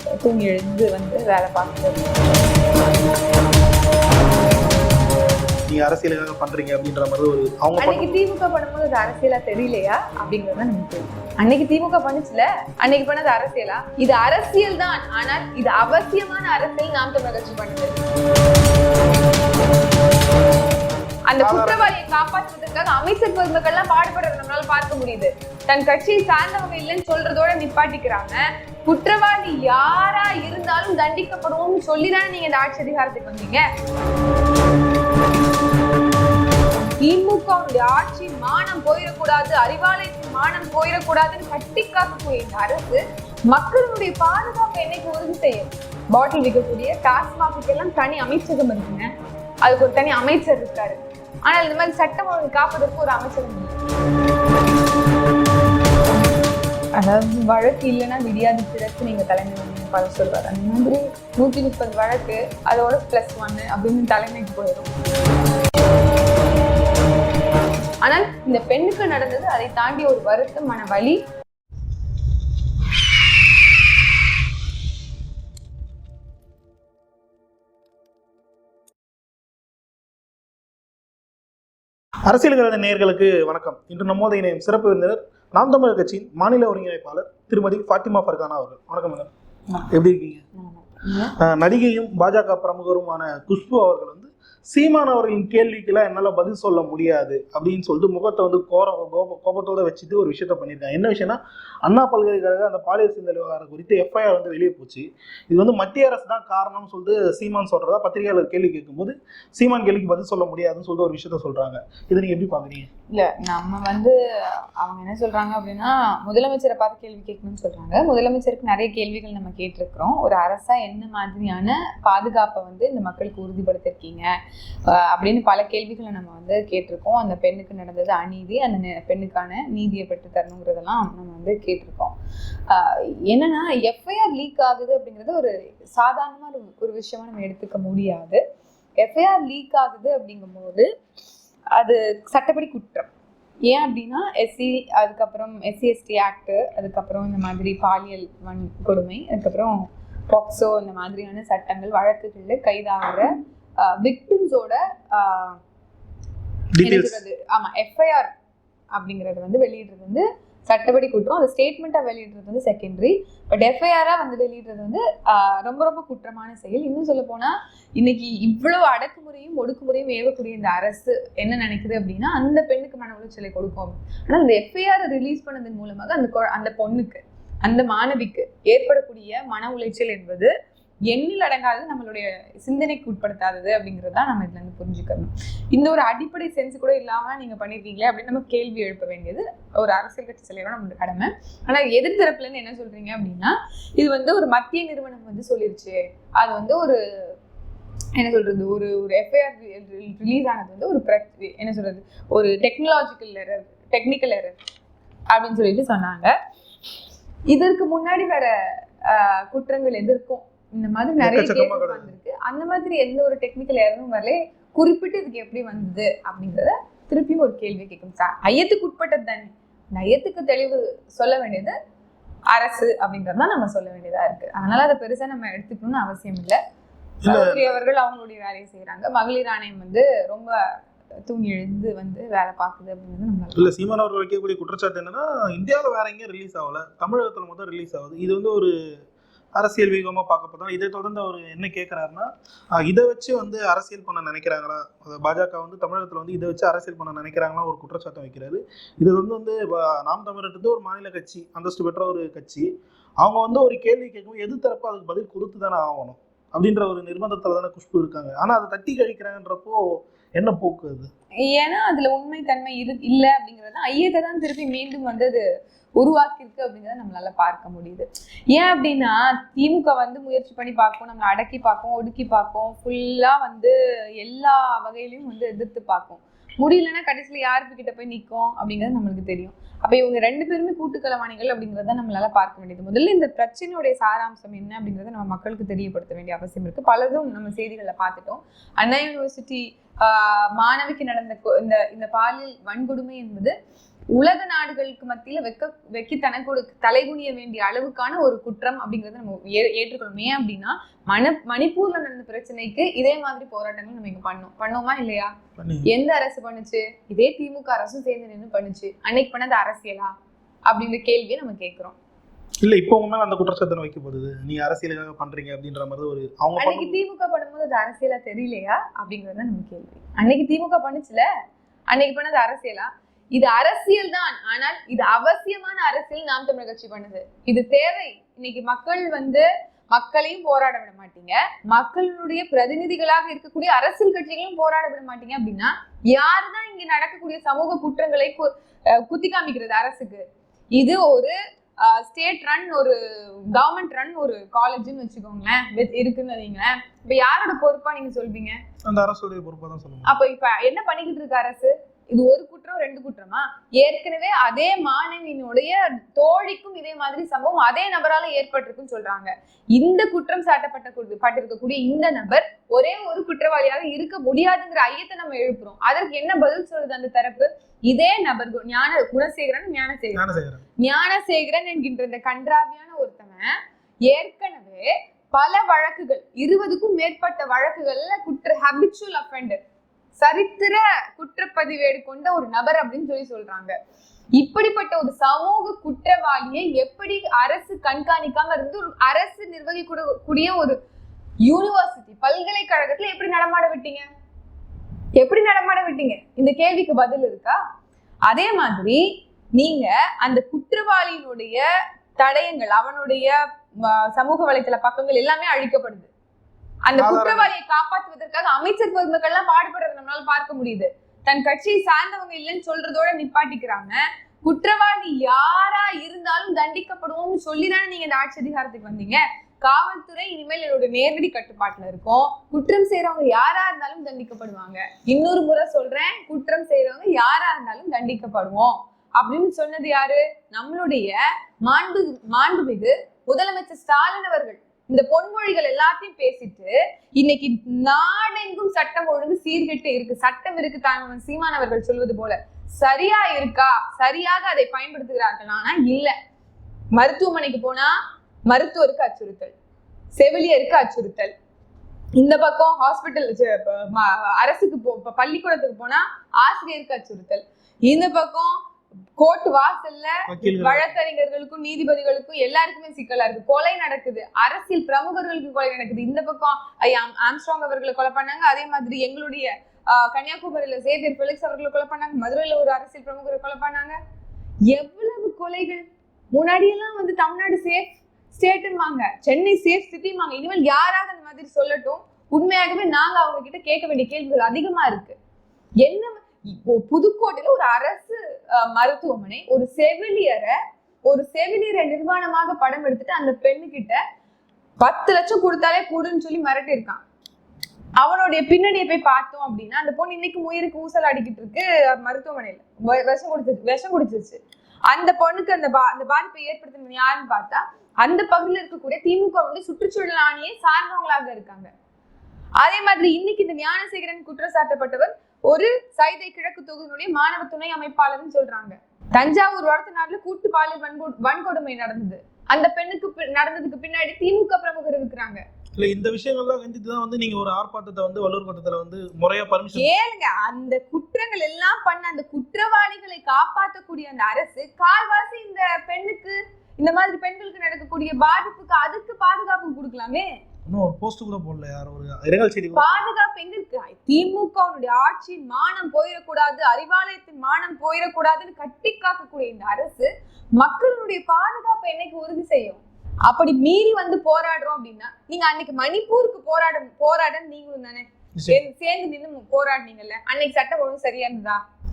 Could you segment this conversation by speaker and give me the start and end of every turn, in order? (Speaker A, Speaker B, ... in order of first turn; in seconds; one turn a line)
Speaker A: 0.2-2.2
Speaker B: 5.7-8.2
Speaker A: 7.8-18.0
Speaker A: 21.3-33.6
Speaker B: 21.4-21.9
Speaker A: 37.0-49.1
Speaker A: 49.6-53.8
Speaker A: 57.0-64.9
Speaker A: 68.0-71.2
Speaker B: 82.3-89.3
Speaker B: 89.9-90.5
Speaker A: 90.6-91.3
Speaker B: 91.4-112.9
Speaker A: 113.1-124.3
Speaker A: 124.9-132.1
Speaker A: 132.7-138.4
Speaker A: 139.0-140.9
Speaker A: 141.7-143.1
Speaker A: 143.7-149.8
Speaker A: 150.3-155.6
Speaker B: 156.8-157.2
Speaker A: 156.8-158.3
Speaker A: 158.9-180.5
Speaker A: 181.1-197.3
Speaker A: 198.2-204.6
Speaker A: 205.3-206.3
Speaker A: 207.5-208.5
Speaker A: 209.0-221.8
Speaker B: 211.2-212.1
Speaker A: 222.5-226.6
Speaker B: 227.2-227.7
Speaker A: 227.3-230.6
Speaker A: 231.3-233.7
Speaker B: 233.6-238.7
Speaker B: 239.6-252.7
Speaker B: 253.2-259.8
Speaker B: 260.4-261.1
Speaker A: 261.4-265.4
Speaker A: 266.0-293.5
Speaker A: 294.2-305.3
Speaker B: 305.6-305.9
Speaker A: 305.9-310.1
Speaker A: 310.7-311.9
Speaker B: 312.6-317.0
Speaker A: 316.6-321.2
Speaker A: 321.9-340.2
Speaker A: 340.8-343.0
Speaker A: 343.5-348.6
Speaker B: 348.9-350.2
Speaker A: 350.1-370.3
Speaker B: 370.1-370.6
Speaker A: 370.8-373.5
Speaker A: 374.1-379.6
Speaker A: 380.2-383.7
Speaker A: 384.4-390.8
Speaker A: 391.5-394.1
Speaker A: 395.2-397.6
Speaker A: 398.3-399.0
Speaker A: 399.6-401.6
Speaker A: 402.2-406.1
Speaker A: 406.9-446.1
Speaker B: 407.0-407.5
Speaker A: 447.0-447.9
Speaker A: 448.5-449.5
Speaker A: 450.2-451.3
Speaker A: 452.2-458.5
Speaker A: 459.2-474.0
Speaker B: 460.3-460.9
Speaker A: 474.7-485.2
Speaker A: 485.8-490.6
Speaker A: 491.1-494.0
Speaker A: 494.8-497.0
Speaker A: 498.0-504.4
Speaker A: 504.9-511.7
Speaker A: 512.6-525.4
Speaker B: 525.8-529.9
Speaker A: 529.8-540.3
Speaker B: 540.7-543.1
Speaker A: 542.7-561.6
Speaker B: 558.4-558.6